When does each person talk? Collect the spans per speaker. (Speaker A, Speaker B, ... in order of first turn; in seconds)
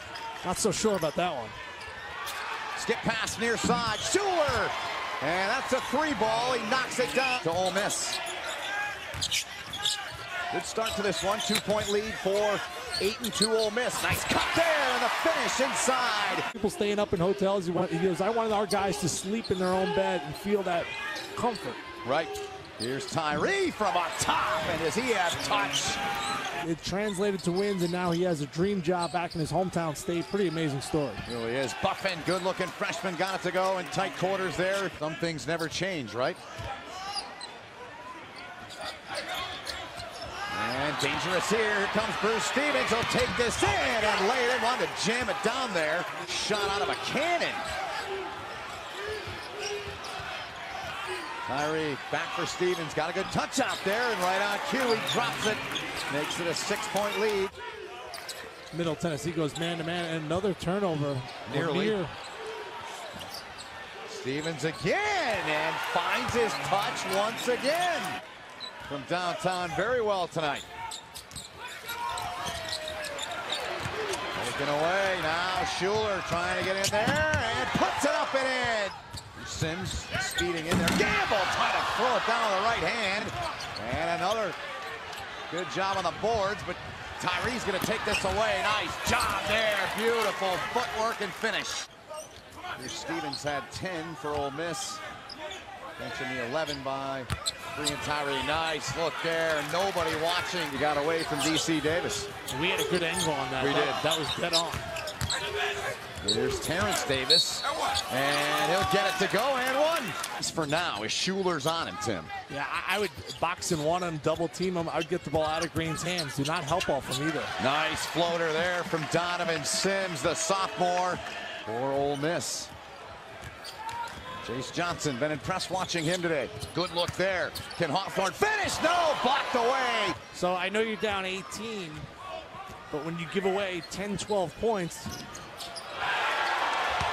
Speaker A: 0.4-1.6, 16.5-21.8, 26.6-31.2, 58.7-62.1, 102.5-104.9, 112.5-117.5, 130.3-132.1, 132.9-135.2
Speaker B: 2.8-8.2, 10.5-16.4, 22.0-26.0, 31.2-36.4, 40.5-47.6, 51.5-57.5, 61.5-62.0, 64.1-68.2, 68.8-70.7, 74.3-84.5, 85.5-91.8, 92.8-95.0, 96.0-102.3, 103.6-104.0, 106.2-112.3, 117.6-122.7, 124.4-130.2